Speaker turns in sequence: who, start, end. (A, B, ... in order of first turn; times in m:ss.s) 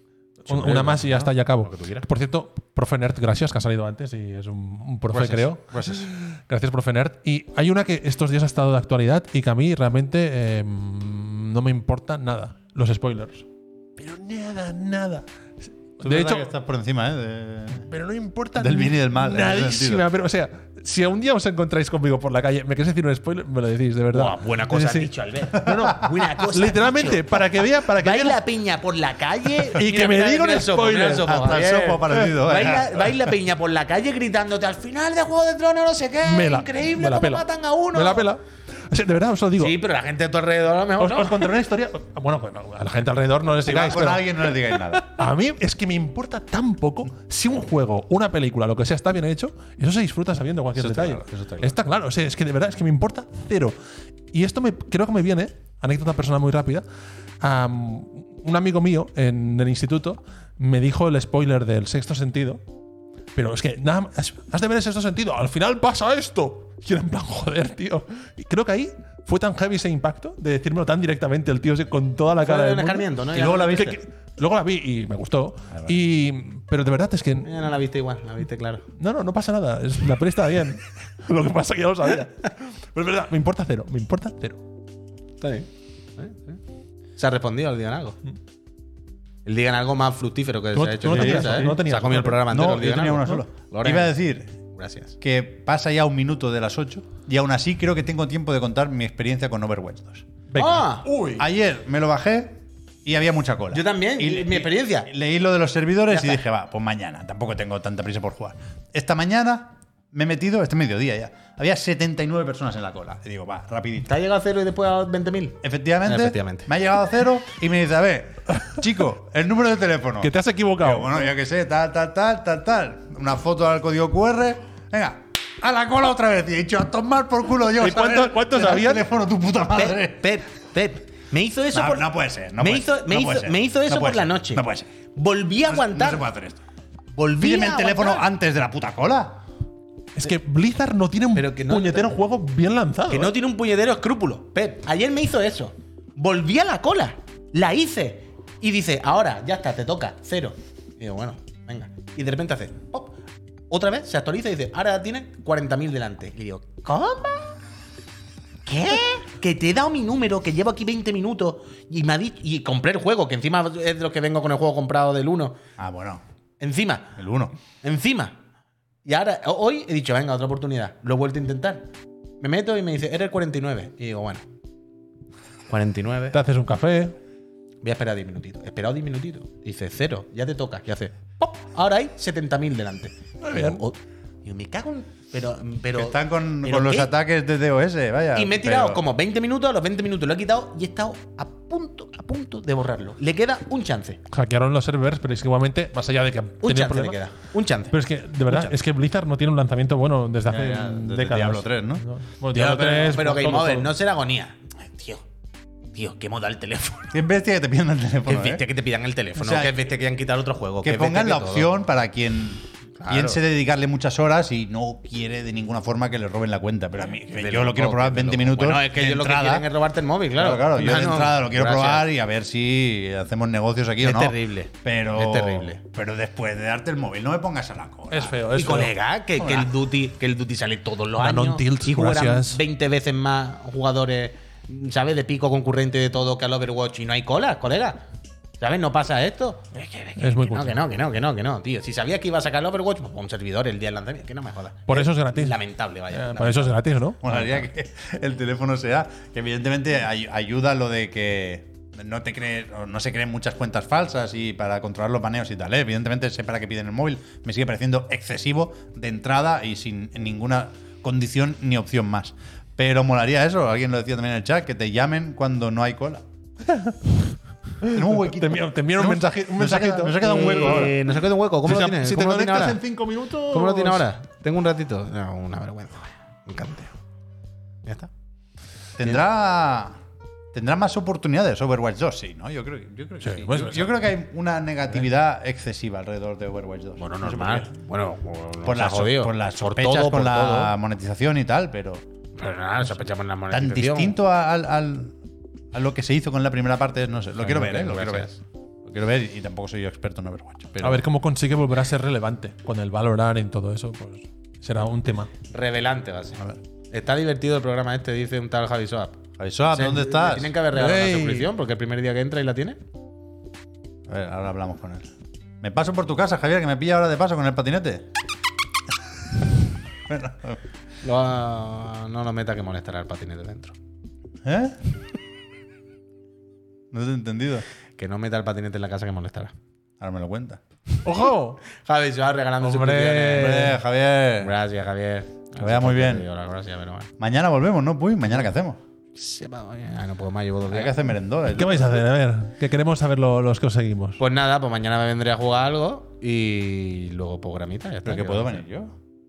0:00.4-0:13.4 A
0:00.5-0:02.1 B
0:00.8-0:01.3 C
0:05.1-0:05.5 B
0:05.7-0:06.1 C
0:14.0-0:15.2 A
0:16.0-0:16.5 A
0:16.0-0:17.9 C
0:17.8-0:28.4 A
0:18.6-0:20.1 C
0:24.1-0:27.4 B
0:25.6-0:25.9 C
0:27.9-0:38.3 B
0:29.5-0:31.4 A
0:31.2-0:33.1 C
0:36.2-0:39.8 A
0:39.6-0:41.5 B
0:41.0-0:53.8 A
0:43.6-0:45.2 C
0:50.8-0:51.8 C
0:54.3-0:56.8 A
0:57.4-1:02.6 A
1:03.4-1:17.5 A
1:12.4-1:14.0 B
1:13.3-1:14.0 C
1:17.4-1:18.9 B
1:19.0-1:24.6 A
1:25.4-1:26.6 B
1:27.2-1:28.2 B
1:29.4-1:34.1 B
1:30.7-1:33.4 A
1:31.1-1:31.8 C
1:32.5-1:34.5 C
1:34.7-1:35.2 B
1:35.2-1:40.3 C
1:40.5-1:41.4 A
1:40.6-1:41.1 B
1:41.4-1:54.1 C
1:43.7-1:45.1 B
1:46.1-1:46.4 B
1:54.1-1:56.7 B
1:55.6-2:10.3 C
2:00.2-2:01.3 A
2:07.8-2:09.0 A
2:09.7-2:16.2 B
2:11.7-2:14.9 C
2:15.7-2:16.6 C
2:17.1-2:18.2 B
2:17.4-2:19.4 C
2:20.2-2:23.3 A
2:21.4-2:22.1 B
2:23.1-2:33.2 B
2:33.7-2:37.6 B
2:38.7-2:45.6 B
2:45.8-2:46.2 C
2:46.6-2:47.2 B
2:47.2-2:47.5 C
2:47.8-2:48.4 B
2:49.0-2:51.9 B
2:52.4-2:54.4 B
2:55.7-2:56.4 B
2:56.3-2:57.2 A
2:57.8-3:07.1 B
3:03.4-3:03.8 A
3:06.0-3:09.0 C
3:08.4-3:14.2 B
3:14.3-3:17.2 A
3:16.6-3:18.0 B
3:17.9-3:24.0 A
3:18.5-3:18.8 B
3:20.5-3:22.0 C
3:22.5-3:25.2 B
3:25.9-3:27.2 B
3:27.1-3:28.6 C
3:28.3-3:31.7 B
3:29.4-3:29.8 C
3:30.8-3:39.7 C
3:33.0-3:33.4 B
3:37.0-3:42.1 B
3:40.4-3:48.4 C
3:44.0-3:45.8 B
3:48.1-3:48.9 A
3:48.5-3:58.0 B
3:49.4-3:49.7 C
3:51.2-3:52.6 A
3:58.6-4:06.8 B
4:00.2-4:00.8 A
4:04.9-4:05.6 A
4:06.1-4:07.6 A
4:07.2-4:26.2 C
4:26.7-4:27.0 A
4:27.8-4:31.0 A
4:27.9-4:31.0 C
4:30.2-4:32.8 B
4:31.6-4:34.1 A
4:33.5-4:36.9 B
4:37.8-4:38.1 B
4:39.0-4:40.0 C
4:40.5-4:47.7 C
4:43.2-4:44.0 A
4:47.0-4:50.8 B
4:48.6-4:52.0 C
4:52.4-4:54.2 B
4:53.5-4:55.1 C
4:55.7-4:58.3 C
4:57.4-4:58.4 B
4:58.9-5:01.0 C
5:00.8-5:05.3 A
5:05.5-5:09.2 B
5:09.4-5:10.5 C
5:09.7-5:12.8 B
5:10.7-5:11.5 A
5:14.1-5:15.1 C
5:15.6-5:18.1 C
5:20.1-5:20.6 C
5:21.0-5:23.8 B
5:24.4-5:24.8 C
5:26.9-5:27.7 C
5:28.0-5:29.5 B
5:30.0-5:30.6 C
5:31.0-5:31.6 A
5:31.7-5:33.7 B
5:32.6-5:33.8 A
5:33.3-5:34.6 C
5:34.4-5:37.1 B
5:35.6-5:36.3 C
5:37.2-5:38.8 C
5:39.2-5:40.9 B
5:40.7-5:42.0 C
5:41.5-5:44.2 A
5:44.2-5:48.6 B
5:48.0-5:49.0 C